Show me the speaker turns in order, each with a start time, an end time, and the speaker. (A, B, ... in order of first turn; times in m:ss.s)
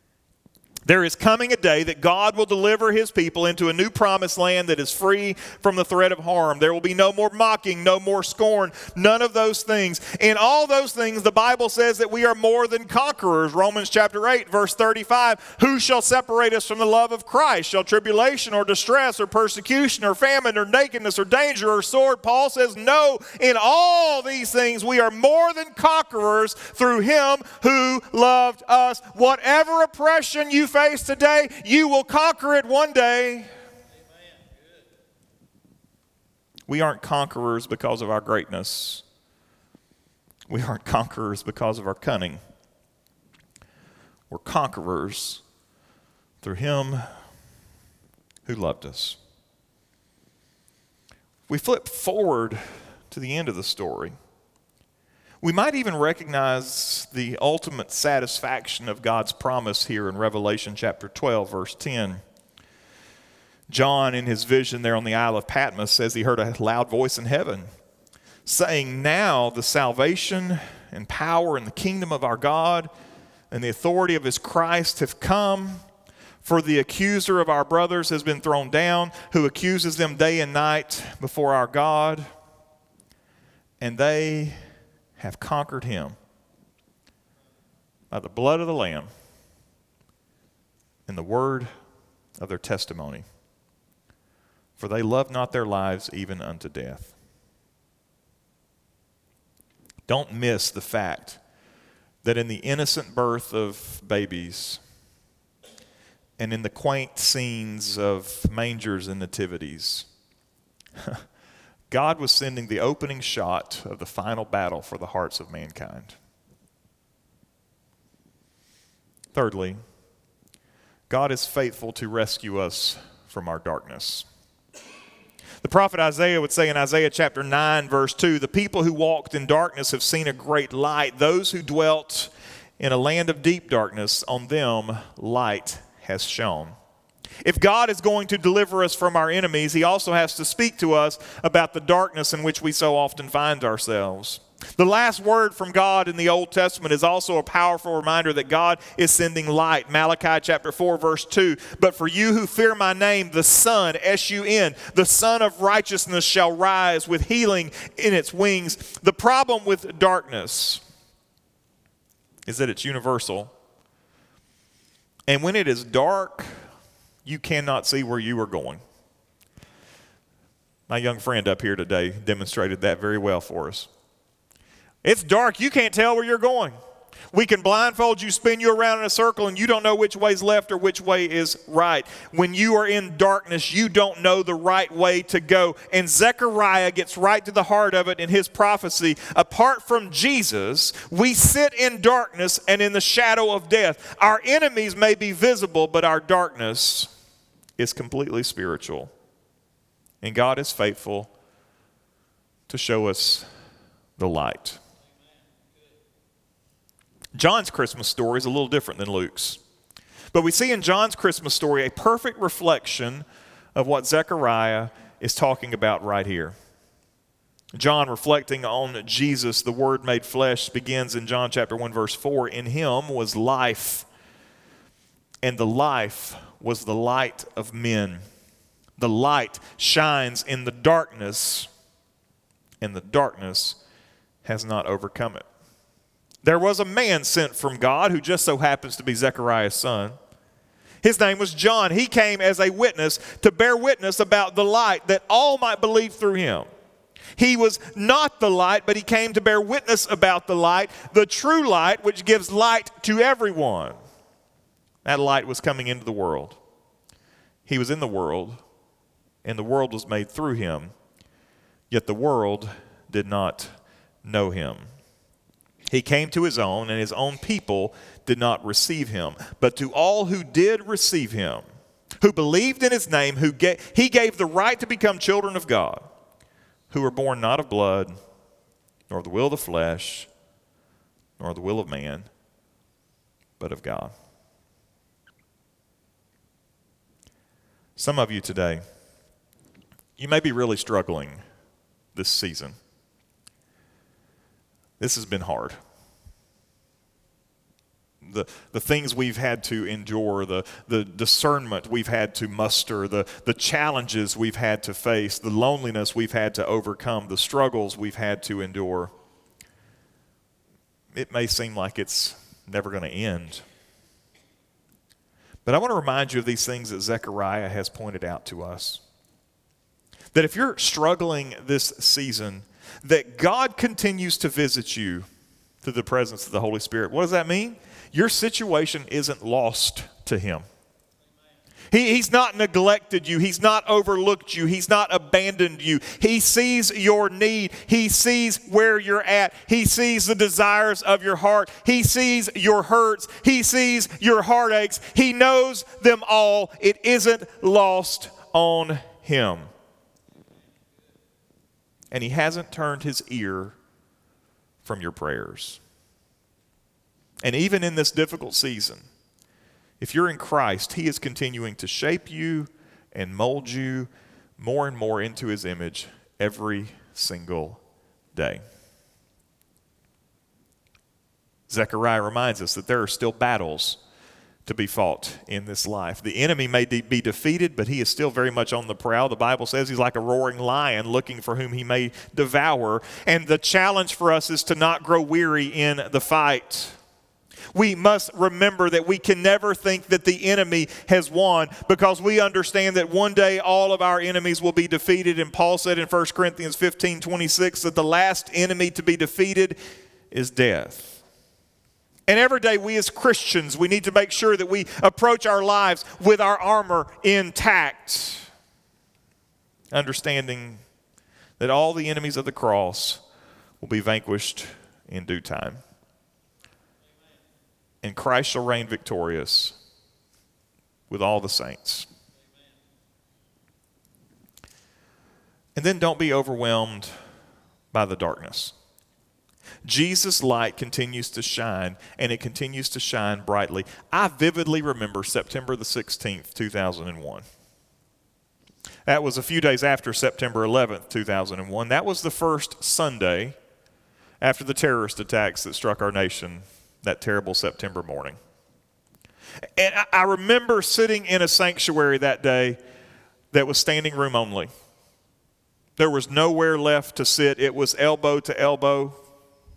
0:00.9-0:33.5 A
0:36.7-0:39.0 A
0:40.5-0:42.4 A
0:44.3-0:45.4 A
0:46.4-0:47.1 A
0:48.4-0:49.2 A
0:51.5-0:54.2 A
0:55.4-1:02.2 A
1:03.7-1:07.7 A
1:08.5-1:12.9 A
1:13.5-1:15.8 A
1:16.4-1:22.3 A
1:23.8-1:24.6 A
1:25.2-1:26.2 A
1:28.1-1:29.1 A
1:31.1-1:31.7 A
1:32.4-1:33.3 A
1:34.8-1:37.1 A
1:40.1-1:41.4 A
1:42.2-1:44.8 A
1:46.4-1:50.1 A
1:51.9-1:56.2 A
1:59.3-1:59.8 A
2:01.1-2:04.3 A
2:05.6-2:16.8 A
2:17.4-2:40.8 A
2:42.5-2:43.5 A
2:45.3-2:46.5 A
2:47.2-2:48.8 A
2:50.9-2:53.9 A
2:55.0-2:56.8 A
2:57.3-3:17.1 A
3:17.8-3:19.1 A
3:20.2-3:21.3 A
3:22.7-3:23.5 A
3:24.2-3:24.8 A
3:27.4-3:29.6 A
3:30.3-3:36.5 A
3:37.7-3:44.1 A
3:45.4-3:48.2 A
3:49.0-3:51.7 A
3:52.8-3:53.8 A
3:54.4-3:55.4 A
3:56.4-4:00.2 A
4:01.0-4:06.7 A
4:07.4-4:14.0 A
4:15.0-4:16.6 A
4:17.7-4:18.6 A
4:19.4-4:20.9 A
4:21.9-4:24.9 A
4:25.9-4:31.6 A
4:32.2-4:36.1 A
4:36.9-4:38.2 A
4:39.1-4:40.3 A
4:41.4-4:42.3 A
4:43.6-4:44.1 A
4:48.0-4:48.8 A
4:50.2-4:51.4 A
4:52.2-4:52.8 A
4:55.0-4:55.8 A
4:58.2-5:09.1 A
5:11.1-5:13.6 A
5:15.7-5:19.0 A
5:20.3-5:25.3 A
5:25.8-5:30.6 A
5:31.9-5:49.7 A
5:52.1-5:53.8 A
5:54.8-5:55.8 A
5:57.4-5:59.0 A
6:00.0-6:07.8 A
6:08.3-6:08.6 A
6:11.7-6:14.0 A
6:14.7-6:27.0 A
6:27.7-6:39.8 A
6:40.3-6:41.2 A
6:42.3-6:48.5 A
6:49.9-6:50.8 A
6:51.6-6:53.2 A
6:53.8-6:55.8 A
6:58.0-6:59.8 A
7:01.1-7:02.1 A
7:05.8-7:07.2 A
7:07.9-7:08.7 A
7:09.8-7:17.4 A
7:19.1-7:23.6 A
7:24.4-7:28.4 A
7:29.8-7:32.8 A
7:33.5-7:34.7 A
7:36.0-7:39.2 A